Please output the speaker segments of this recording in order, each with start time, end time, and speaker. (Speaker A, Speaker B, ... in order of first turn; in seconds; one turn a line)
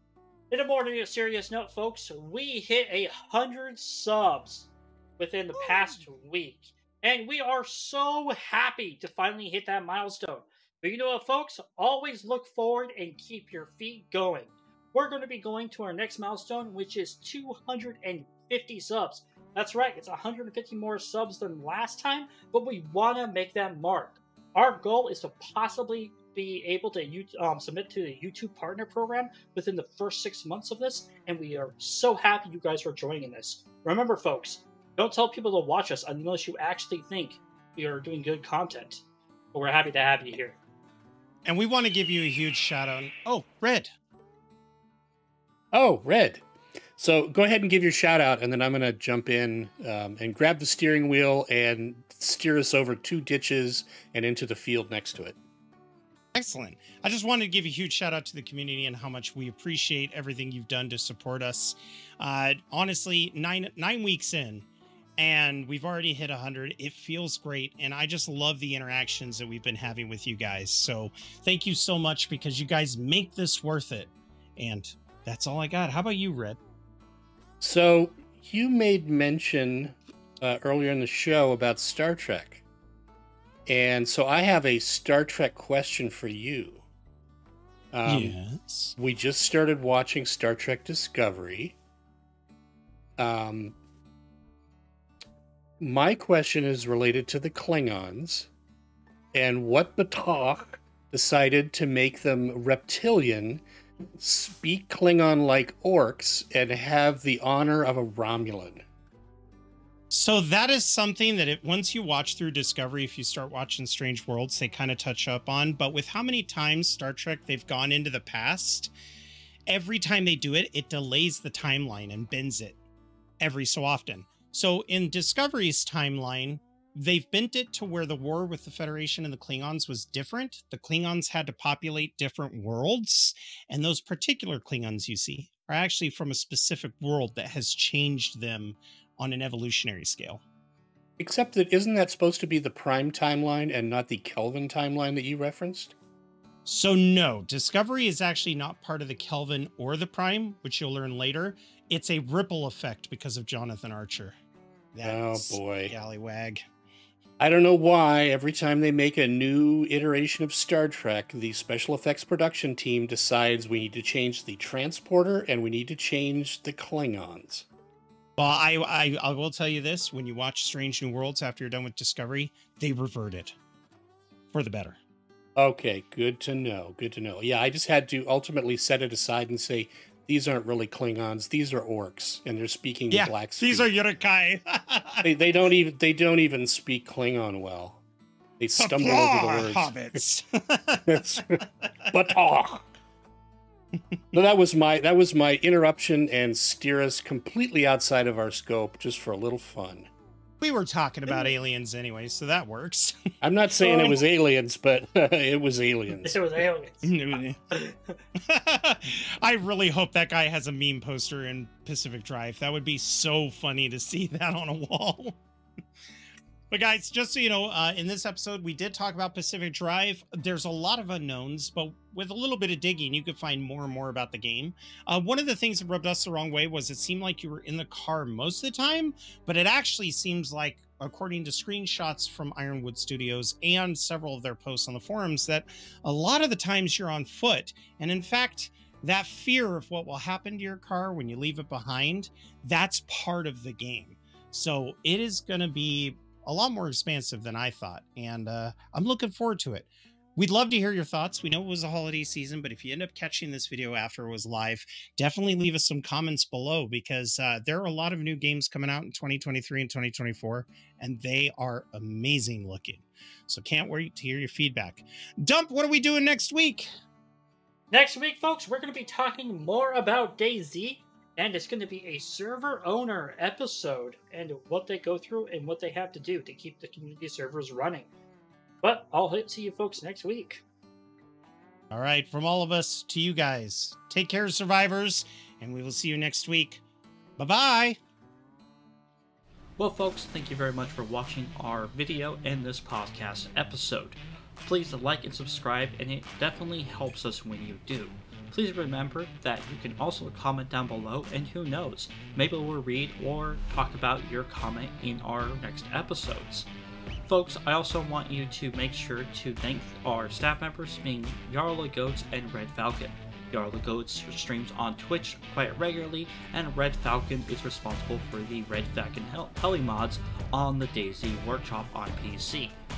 Speaker A: 0.5-39.0
Speaker A: 39.5-40.6
Speaker B: 41.4-43.9
Speaker C: 45.7-46.4
Speaker C: 47.0-55.4
Speaker B: 56.3-64.6
Speaker B: 65.2-76.6
Speaker C: 77.6-82.6
Speaker C: 83.7-86.8
Speaker C: 87.9-88.3
Speaker B: 88.0-88.9
Speaker C: 89.0-91.8
Speaker C: 93.2-93.8
Speaker C: 95.8-98.5
Speaker C: 99.3-108.8
Speaker B: 110.1-118.9
Speaker B: 119.7-122.8
Speaker B: 123.4-140.4
Speaker C: 141.2-145.9
Speaker B: 146.7-154.3
Speaker B: 154.9-156.6
Speaker C: 155.0-155.9
Speaker C: 157.4-167.7
Speaker B: 168.4-173.6
Speaker B: 174.5-175.0
Speaker C: 175.6-183.9
Speaker B: 183.1-185.2
Speaker C: 185.2-188.0
Speaker C: 188.6-189.9
Speaker B: 188.8-191.7
Speaker C: 191.1-192.9
Speaker C: 194.3-200.1
Speaker B: 200.6-203.1
Speaker C: 203.4-206.4
Speaker A: 203.8-204.2
Speaker A: 206.2-207.1
Speaker B: 207.0-207.6
Speaker A: 207.7-208.2
Speaker B: 208.4-215.4
Speaker B: 216.7-266.9
Speaker A: 267.9-278.1
Speaker A: 278.8-280.6
Speaker B: 281.9-286.8
Speaker B: 287.4-288.0
Speaker A: 289.8-306.7
Speaker A: 307.3-322.8